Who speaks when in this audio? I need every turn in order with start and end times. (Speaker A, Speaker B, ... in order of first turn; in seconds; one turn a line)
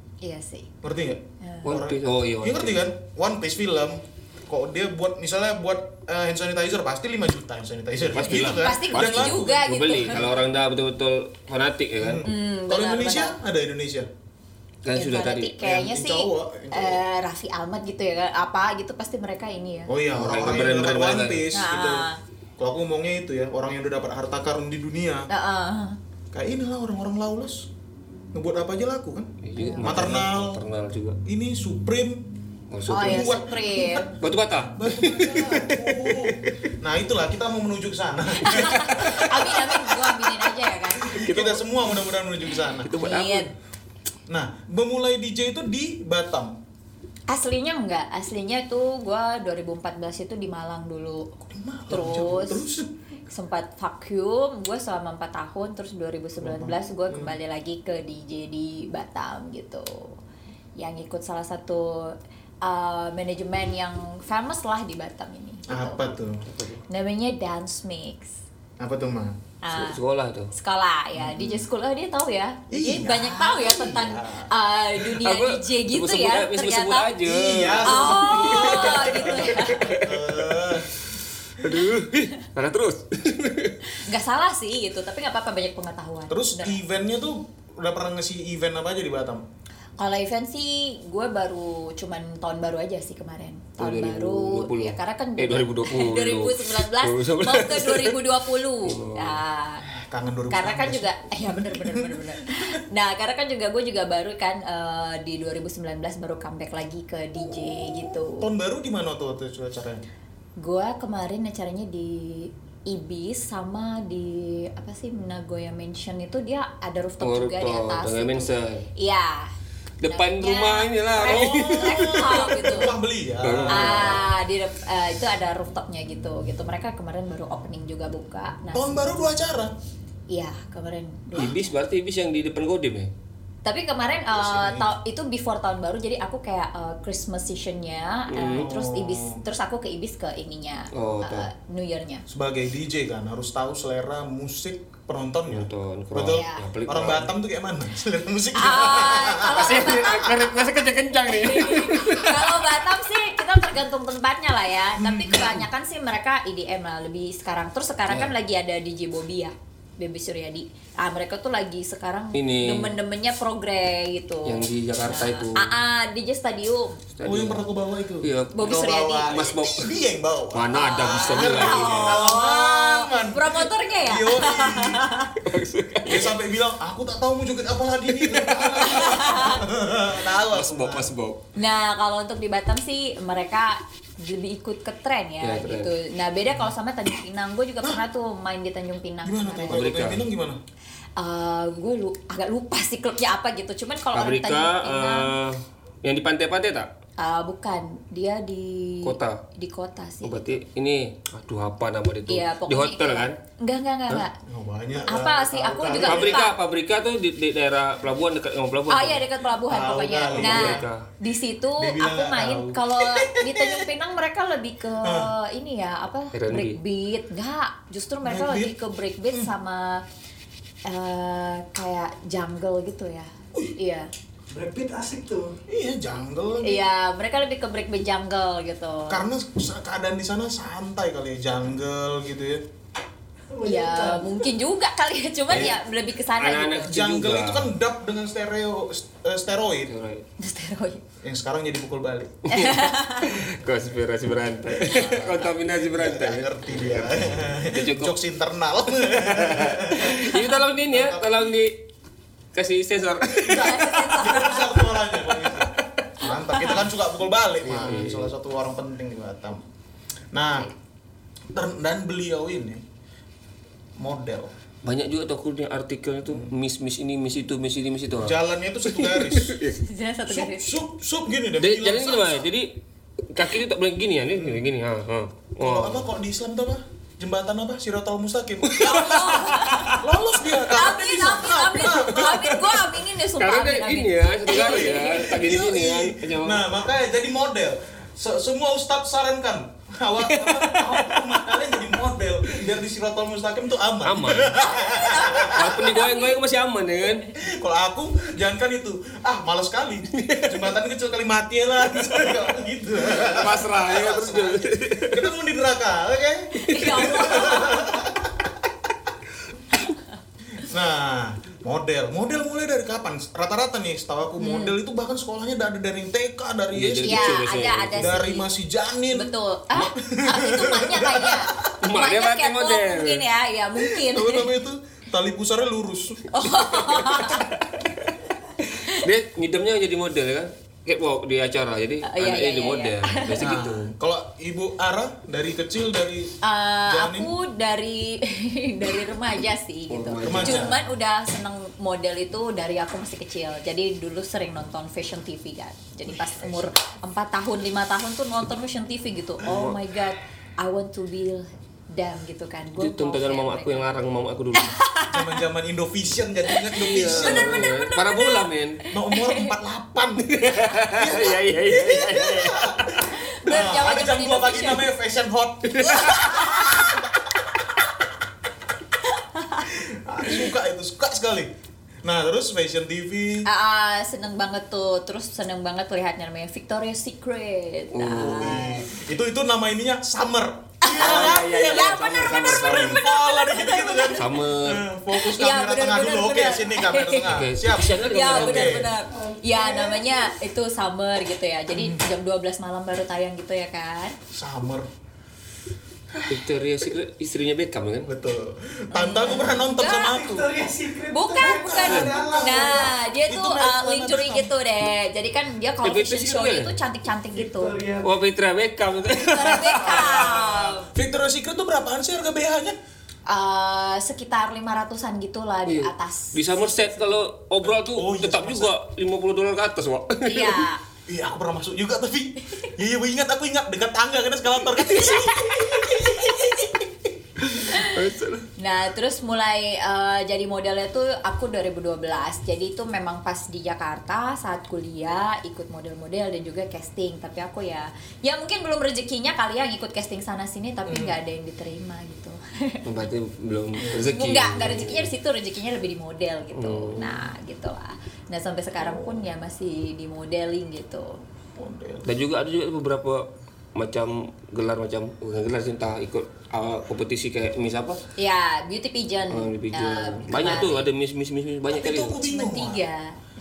Speaker A: 0.2-0.7
Speaker B: 0.8-10.3
Speaker A: 1.4-1.7
Speaker C: 1.6-2.8
Speaker C: 8.1-12.2
Speaker A: 8.2-10.3
Speaker B: 12.0-14.1
Speaker A: 12.2-13.3
Speaker C: 14.8-15.5
Speaker A: 14.9-19.9
Speaker B: 15.6-17.0
Speaker B: 19.9-22.1
Speaker C: 20.1-21.4
Speaker A: 21.5-22.2
Speaker B: 22.6-25.3
Speaker A: 25.3-26.0
Speaker B: 26.3-27.7
Speaker B: 28.3-29.3
Speaker C: 29.4-31.2
Speaker A: 29.6-30.2
Speaker B: 29.8-30.6
Speaker B: 31.2-32.2
Speaker C: 32.7-33.4
Speaker A: 32.9-34.1
Speaker B: 32.9-40.4
Speaker C: 34.2-36.7
Speaker A: 38.4-41.2
Speaker B: 41.0-42.9
Speaker C: 41.2-42.0
Speaker C: 42.7-43.5
Speaker A: 43.0-43.5
Speaker B: 44.3-46.5
Speaker A: 47.3-51.3
Speaker B: 51.4-52.9
Speaker A: 51.9-52.7
Speaker A: 53.3-60.2
Speaker B: 56.4-57.4
Speaker A: 60.8-66.0
Speaker B: 65.7-66.4
Speaker C: 66.5-66.8
Speaker A: 66.9-68.4
Speaker B: 68.8-69.4
Speaker A: 69.6-70.0
Speaker C: 69.7-70.5
Speaker A: 70.5-77.1
Speaker B: 71.2-71.7
Speaker B: 72.7-74.5
Speaker C: 75.0-83.8
Speaker B: 77.2-80.9
Speaker A: 77.9-80.0
Speaker A: 83.9-86.8
Speaker B: 86.3-89.4
Speaker A: 90.0-99.8
Speaker C: 93.8-99.4
Speaker B: 99.8-102.8
Speaker A: 100.5-108.5
Speaker B: 108.4-110.1
Speaker A: 110.6-119.5
Speaker C: 117.2-118.9
Speaker C: 120.0-122.9
Speaker A: 120.1-122.9
Speaker B: 121.2-124.2
Speaker C: 123.4-124.3
Speaker A: 123.7-129.0
Speaker B: 128.7-129.7
Speaker A: 130.3-131.6
Speaker C: 131.3-133.1
Speaker A: 133.6-142.2
Speaker B: 134.3-134.9
Speaker C: 138.3-138.7
Speaker B: 138.5-139.4
Speaker C: 140.9-141.5
Speaker B: 142.3-150.3
Speaker C: 145.5-147.3
Speaker A: 146.3-146.6
Speaker A: 148.5-167.0
Speaker C: 149.5-152.7
Speaker B: 155.0-155.6
Speaker C: 158.1-158.3
Speaker C: 162.3-162.9
Speaker C: 164.4-165.8
Speaker C: 167.1-167.7
Speaker B: 167.2-175.1
Speaker C: 168.2-170.0
Speaker A: 168.5-169.3
Speaker C: 170.5-172.2
Speaker A: 171.2-175.4
Speaker C: 175.4-176.3
Speaker B: 176.0-181.1
Speaker C: 178.1-179.3
Speaker A: 178.8-179.6
Speaker C: 180.3-181.4
Speaker A: 181.6-189.9
Speaker C: 185.4-185.9
Speaker B: 189.2-190.6
Speaker C: 189.7-190.3
Speaker A: 191.2-195.3
Speaker C: 194.1-196.9
Speaker A: 197.2-200.5
Speaker C: 199.0-199.4
Speaker C: 200.2-203.4
Speaker A: 202.3-204.4
Speaker B: 204.3-206.4
Speaker A: 205.1-206.5
Speaker C: 206.0-209.2
Speaker A: 208.9-220.0
Speaker B: 209.7-210.9
Speaker C: 210.3-211.1
Speaker B: 211.8-213.9
Speaker B: 215.0-215.3
Speaker C: 216.3-216.8
Speaker B: 218.2-218.7
Speaker A: 220.9-224.1
Speaker D: 224.5-225.6
Speaker B: 225.7-226.8
Speaker A: 226.6-229.2
Speaker B: 229.1-232.6
Speaker D: 233.5-234.5
Speaker A: 233.6-236.9
Speaker C: 235.5-235.8
Speaker C: 236.4-237.7
Speaker B: 236.8-239.9
Speaker C: 239.9-240.2
Speaker A: 240.4-241.0
Speaker B: 241.2-242.4
Speaker A: 242.5-243.4
Speaker C: 242.5-248.2
Speaker B: 244.7-251.4
Speaker C: 249.0-251.8
Speaker A: 250.1-250.6
Speaker C: 252.5-254.4
Speaker B: 253.3-259.6
Speaker A: 253.6-254.8
Speaker C: 255.3-256.1
Speaker C: 257.6-258.4
Speaker B: 260.3-260.7
Speaker B: 261.5-262.8
Speaker B: 264.0-264.5
Speaker C: 264.8-269.8
Speaker B: 266.3-266.5
Speaker B: 268.2-269.6
Speaker A: 269.9-270.8
Speaker B: 270.3-272.5
Speaker C: 271.6-272.7
Speaker C: 273.3-276.0
Speaker B: 274.4-274.6
Speaker B: 275.6-282.5
Speaker C: 278.6-280.1
Speaker A: 278.9-280.0
Speaker A: 280.8-285.4
Speaker C: 281.9-286.7
Speaker B: 284.6-295.9
Speaker C: 290.2-291.4
Speaker C: 294.0-294.6
Speaker A: 294.6-296.4
Speaker C: 295.5-297.3
Speaker B: 297.4-309.1
Speaker C: 300.1-300.7
Speaker C: 303.1-305.3
Speaker A: 306.5-307.9
Speaker C: 306.7-307.2
Speaker B: 310.6-317.4
Speaker A: 314.4-314.8
Speaker C: 316.7-318.1
Speaker A: 317.1-318.5
Speaker B: 318.0-321.8
Speaker A: 319.1-324.5
Speaker C: 321.8-323.2
Speaker B: 323.8-327.4
Speaker A: 326.3-327.5
Speaker C: 327.9-328.1
Speaker A: 328.7-329.0
Speaker C: 328.9-333.9
Speaker A: 332.0-333.5
Speaker B: 333.4-337.3
Speaker A: 336.4-353.9
Speaker C: 339.9-340.8
Speaker B: 340.2-340.8
Speaker B: 346.1-346.7
Speaker C: 349.4-349.8
Speaker C: 352.8-354.8
Speaker A: 354.5-355.4
Speaker B: 355.1-357.7
Speaker A: 356.5-358.5
Speaker C: 356.8-358.8
Speaker B: 358.9-367.9
Speaker A: 359.1-359.5
Speaker C: 360.3-363.8
Speaker A: 363.3-364.9
Speaker C: 365.7-366.9
Speaker A: 365.9-366.9
Speaker A: 369.1-369.7
Speaker B: 369.6-371.5
Speaker B: 372.0-373.5
Speaker A: 373.4-378.8
Speaker C: 377.9-378.6
Speaker B: 378.1-388.9
Speaker A: 380.8-384.3
Speaker C: 380.9-383.1
Speaker C: 384.1-384.8
Speaker A: 385.1-394.1
Speaker C: 387.2-388.9
Speaker D: 389.1-390.2
Speaker B: 391.7-392.0
Speaker B: 394.3-394.9
Speaker B: 396.1-396.4
Speaker C: 396.3-398.1
Speaker B: 398.0-400.5
Speaker A: 398.9-400.2
Speaker D: 399.3-402.9
Speaker A: 401.1-407.8
Speaker B: 401.3-404.5
Speaker C: 405.8-406.7
Speaker D: 407.3-408.1
Speaker C: 408.0-410.4
Speaker A: 409.3-410.9
Speaker B: 409.8-412.8
Speaker A: 413.3-417.2
Speaker C: 415.6-420.7
Speaker B: 417.6-418.7
Speaker A: 420.2-420.8
Speaker B: 421.1-427.0
Speaker A: 424.9-426.7
Speaker C: 427.4-428.5
Speaker A: 427.6-428.0
Speaker A: 428.6-443.1
Speaker B: 440.9-441.1
Speaker C: 442.9-445.1
Speaker A: 443.9-451.2
Speaker C: 446.5-447.2
Speaker B: 448.8-449.2
Speaker B: 451.6-452.1
Speaker C: 452.0-458.0
Speaker A: 458.2-460.9
Speaker C: 459.3-462.2
Speaker B: 461.7-462.8
Speaker A: 462.2-463.1